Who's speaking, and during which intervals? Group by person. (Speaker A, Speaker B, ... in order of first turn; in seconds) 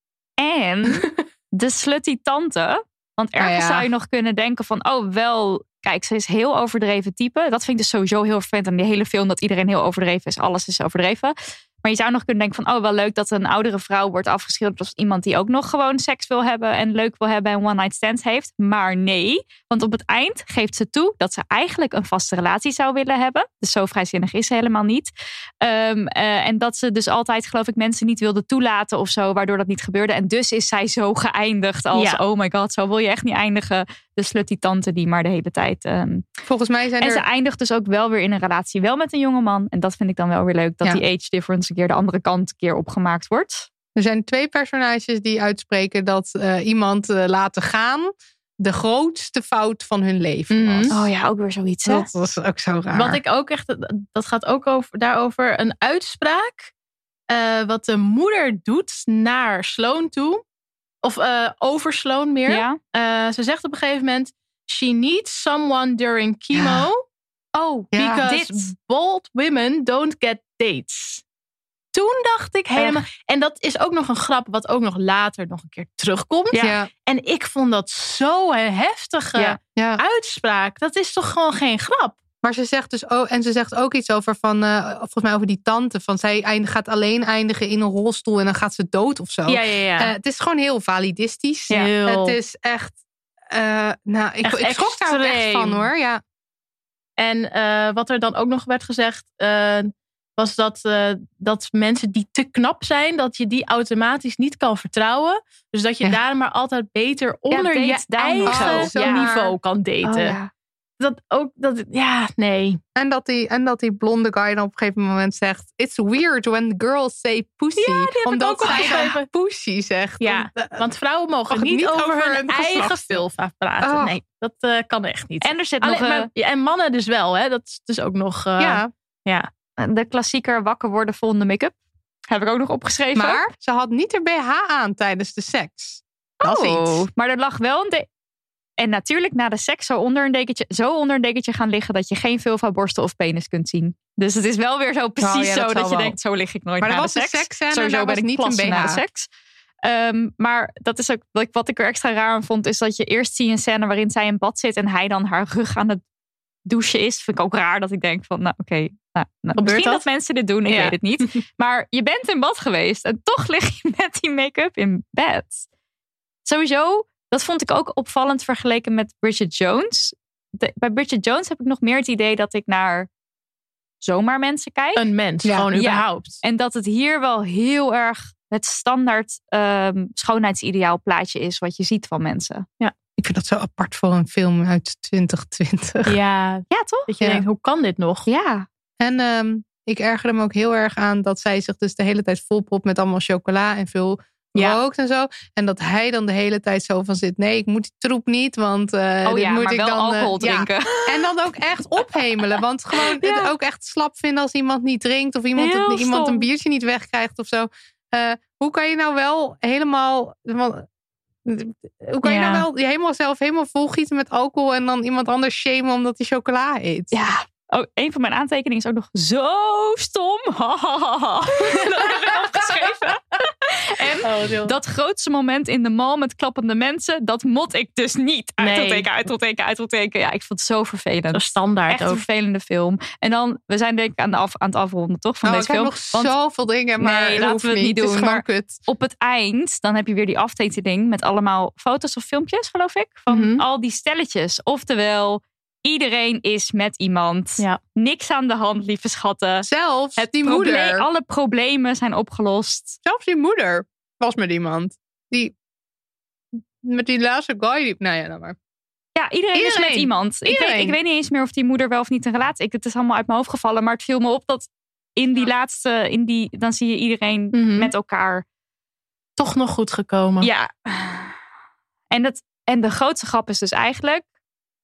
Speaker A: 0.4-25.1, 25.6-36.3, 37.0-43.7, 50.9-52.1, 62.5-62.8, 67.6-68.7, 72.8-73.0, 107.5-109.3, 110.0-110.5, 117.8-119.1, 125.4-126.3, 129.8-131.7, 132.3-133.4, 136.4-138.1, 138.8-149.3, 149.8-156.0, 156.7-165.7, 166.4-173.1, 174.0-175.0, 175.7-182.7, 186.7-187.1, 188.3-188.7, 199.2-201.3, 203.0-203.5, 205.6-206.5, 217.1-236.3, 237.0-253.0, 259.1-268.4, 270.4-271.4, 272.1-274.2
Speaker B: 3.4-3.9, 36.5-37.2, 44.0-50.9, 51.9-53.2, 66.5-66.9, 67.9-68.2, 76.6-76.9, 79.8-80.0, 82.4-93.0, 93.5-96.2, 108.5-109.5, 112.9-120.8, 121.5-123.2, 123.8-124.2, 128.6-128.9, 133.1-137.1, 145.2-146.2, 146.8-149.0, 183.2-186.2, 189.0-210.9, 211.4-217.1, 235.4-238.8, 249.6-251.1, 253.0-255.5, 256.8-258.6, 259.5-261.0
Speaker C: 31.9-32.2, 50.5-50.9, 52.9-56.7, 57.3-60.4, 61.0-67.0, 67.9-71.2, 71.9-82.2, 89.5-90.1, 91.7-92.4, 94.4-95.9, 97.2-110.4, 111.0-112.8, 118.3-119.2, 120.2-129.5, 159.6-160.0, 160.7-161.4, 174.9-176.4, 186.1-188.3, 212.3-212.6, 221.9-222.3, 224.2-224.7, 228.6-229.1, 231.3-232.2, 243.3-243.6, 267.5-267.9, 269.4-270.5